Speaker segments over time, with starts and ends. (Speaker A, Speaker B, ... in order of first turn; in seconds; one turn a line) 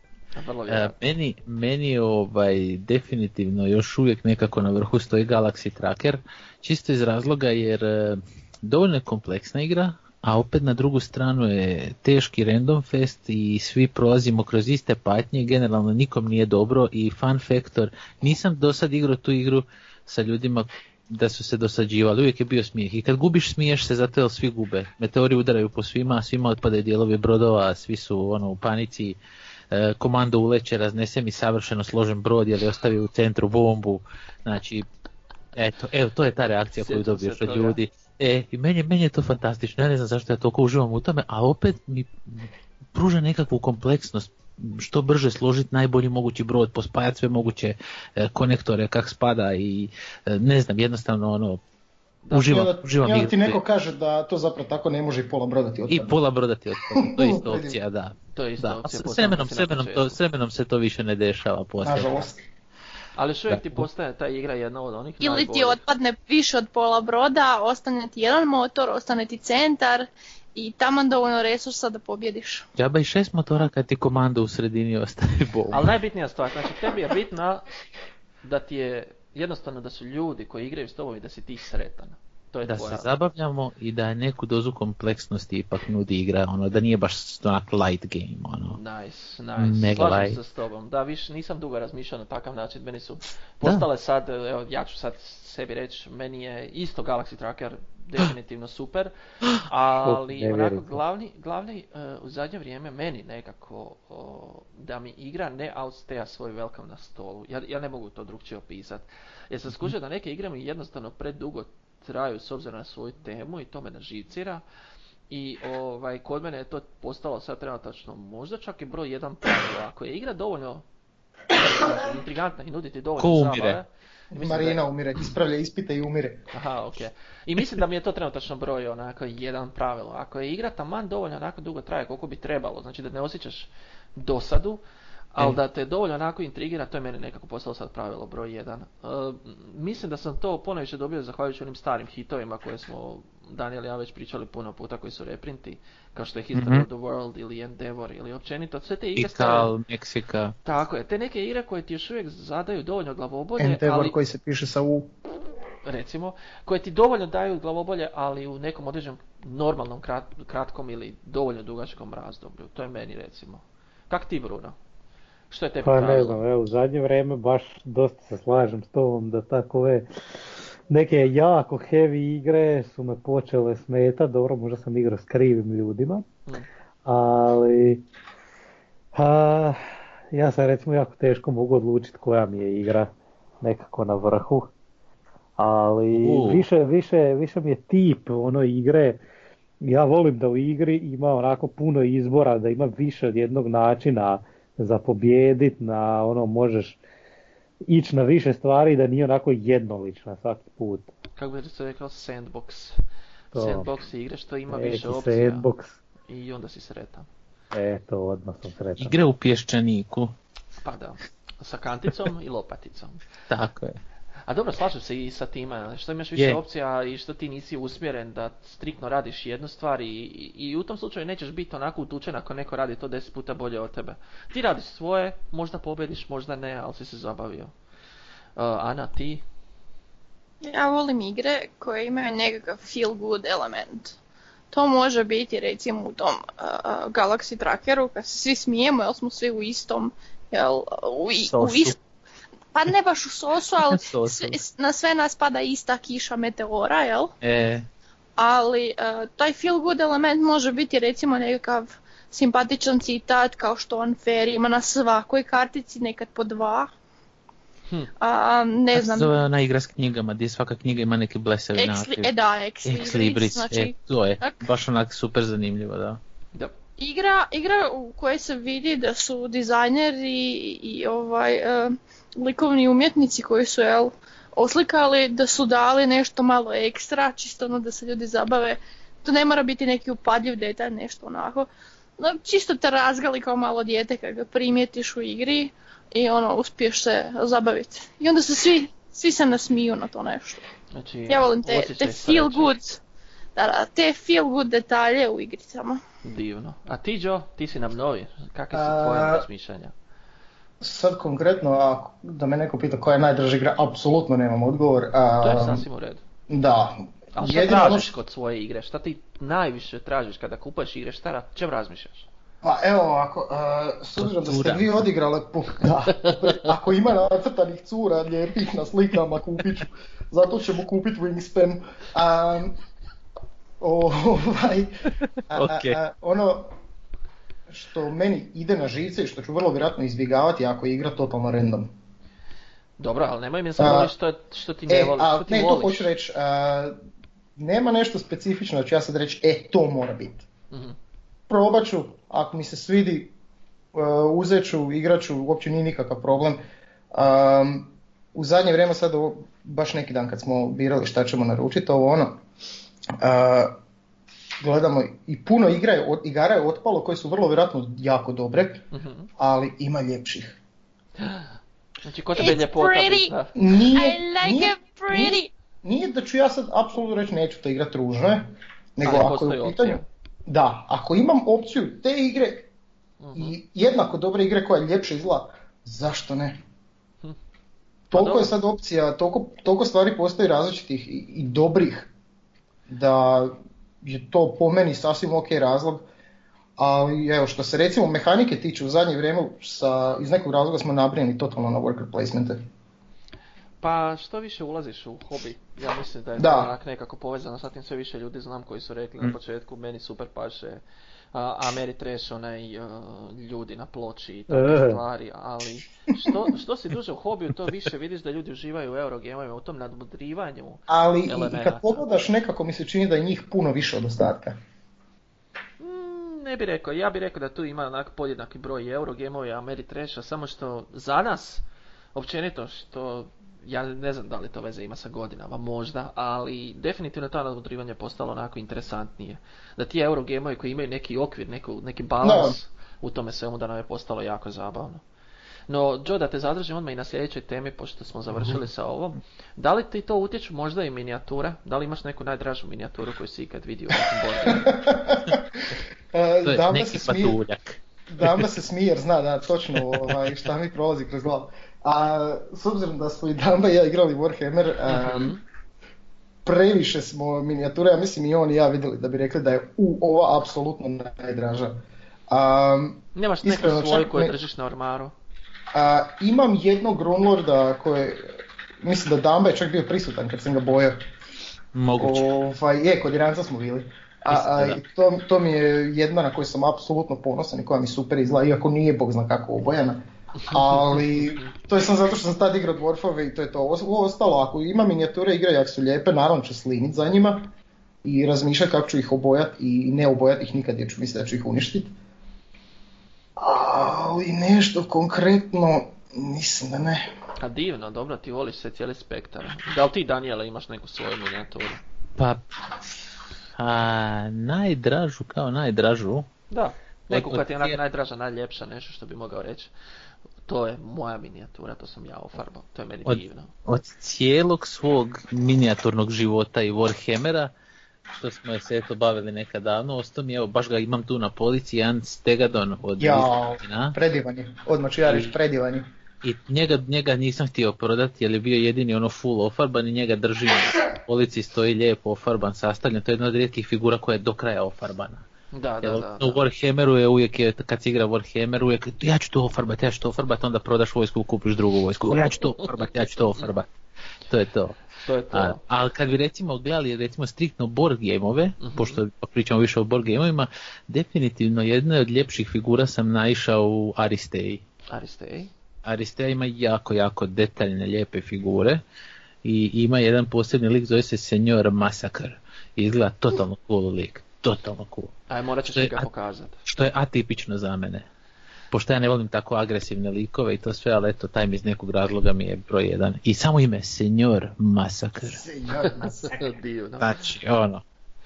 Speaker A: 0.3-1.0
Speaker B: 0.7-29.2
Speaker B: 29.7-34.9
Speaker B: 35.5-51.6
Speaker A: 36.8-37.8
Speaker A: 52.2-52.5
Speaker B: 52.3-53.6
Speaker C: 52.4-56.2
Speaker B: 55.9-62.3
Speaker C: 56.9-57.8
Speaker A: 58.3-60.2
Speaker C: 61.8-62.4
Speaker A: 63.1-65.8
Speaker B: 63.5-63.8
Speaker D: 65.2-72.7
Speaker B: 72.8-75.9
Speaker A: 75.7-77.6
Speaker A: 78.4-83.1
Speaker B: 82.7-88.8
Speaker A: 88.7-99.1
Speaker B: 89.6-90.4
Speaker A: 99.6-114.6
Speaker E: 100.0-101.0
Speaker A: 115.3-120.8
Speaker A: 121.5-124.9
Speaker B: 123.2-123.8
Speaker C: 124.3-126.4
Speaker A: 126.5-134.8
Speaker A: 135.3-149.7
Speaker B: 146.5-146.8
Speaker B: 149.2-150.6
Speaker A: 150.6-154.2
Speaker C: 153.6-155.1
Speaker A: 155.8-164.8
Speaker A: 165.5-166.4
Speaker E: 165.8-170.1
Speaker E: 170.9-176.2
Speaker E: 177.0-178.0
Speaker E: 179.1-179.8
Speaker E: 180.3-183.1
Speaker E: 183.6-184.7
Speaker E: 185.6-189.2
Speaker B: 186.1-186.6
Speaker E: 189.8-197.0
Speaker E: 197.9-201.1
Speaker A: 201.4-202.9
Speaker E: 203.5-203.9
Speaker A: 203.5-205.7
Speaker E: 204.7-205.9
Speaker A: 206.3-207.3
Speaker E: 207.7-209.1
Speaker B: 209.0-210.3
Speaker A: 210.8-213.2
Speaker B: 213.5-214.0
Speaker A: 214.5-227.7
Speaker A: 228.6-229.4
Speaker D: 230.6-234.2
Speaker D: 234.7-241.9
Speaker B: 241.4-241.9
Speaker D: 242.7-247.3
Speaker B: 243.8-244.6
Speaker B: 247.4-247.9
Speaker D: 248.4-256.9
Speaker D: 258.2-259.3
Speaker B: 258.9-262.3
Speaker D: 261.8-264.6
Speaker B: 262.8-266.2
Speaker D: 267.0-290.6
Speaker A: 290.9-292.7
Speaker D: 291.3-293.0
Speaker D: 293.6-296.0
Speaker A: 296.2-299.9
Speaker C: 298.7-299.4
Speaker C: 300.8-305.8
Speaker A: 305.4-306.2
Speaker C: 306.5-308.1
Speaker A: 307.3-312.3
Speaker C: 312.6-322.8
Speaker B: 314.1-315.1
Speaker C: 323.8-326.7
Speaker B: 325.5-326.0
Speaker C: 327.7-331.9
Speaker A: 333.0-336.1
Speaker C: 333.8-334.1
Speaker C: 334.9-336.9
Speaker C: 337.6-340.4
Speaker A: 340.7-341.0
Speaker C: 341.5-343.3
Speaker C: 343.9-346.6
Speaker C: 347.1-352.4
Speaker C: 353.2-353.7
Speaker C: 354.6-358.8
Speaker A: 358.9-359.3
Speaker C: 359.4-360.6
Speaker A: 361.2-361.5
Speaker A: 362.0-363.5
Speaker D: 362.3-365.5
Speaker C: 363.5-372.7
Speaker A: 369.0-370.0
Speaker A: 373.2-373.6
Speaker C: 373.3-376.6
Speaker A: 378.1-378.5
Speaker C: 378.1-382.1
Speaker C: 382.9-386.0
Speaker C: 386.8-392.6
Speaker A: 393.8-400.8
Speaker C: 396.4-396.7
Speaker A: 401.3-412.0
Speaker E: 404.5-405.0
Speaker C: 410.9-414.6
Speaker A: 415.8-421.6
Speaker A: 422.1-435.0
Speaker C: 432.2-432.6
Speaker A: 435.7-444.7
Speaker C: 444.4-447.4
Speaker B: 446.4-448.4
Speaker C: 448.1-455.3
Speaker A: 454.9-455.4
Speaker C: 456.4-461.8
Speaker C: 462.3-464.3
Speaker A: 463.1-465.1
Speaker C: 465.7-471.1
Speaker B: 471.7-472.2
Speaker C: 472.0-487.5
Speaker B: 474.3-474.8
Speaker C: 488.0-491.9
Speaker C: 493.4-497.1
Speaker A: 497.4-501.8
Speaker B: 502.2-502.4
Speaker B: 503.6-506.3
Speaker A: 506.5-509.7
Speaker B: 507.1-507.8
Speaker A: 510.4-513.5
Speaker B: 513.1-517.5
Speaker B: 518.1-524.0
Speaker C: 523.0-525.9
Speaker B: 525.1-525.3
Speaker B: 526.2-535.2
Speaker A: 535.5-536.4
Speaker B: 535.8-543.7
Speaker B: 544.3-554.6
Speaker A: 545.0-545.6
Speaker A: 548.6-549.0
Speaker A: 554.9-555.5
Speaker B: 555.8-558.8
Speaker B: 559.4-565.1
Speaker A: 565.3-566.6
Speaker B: 565.7-566.1
Speaker B: 566.6-568.0
Speaker B: 568.7-575.4
Speaker C: 575.3-576.5
Speaker A: 575.8-577.3
Speaker B: 577.0-577.8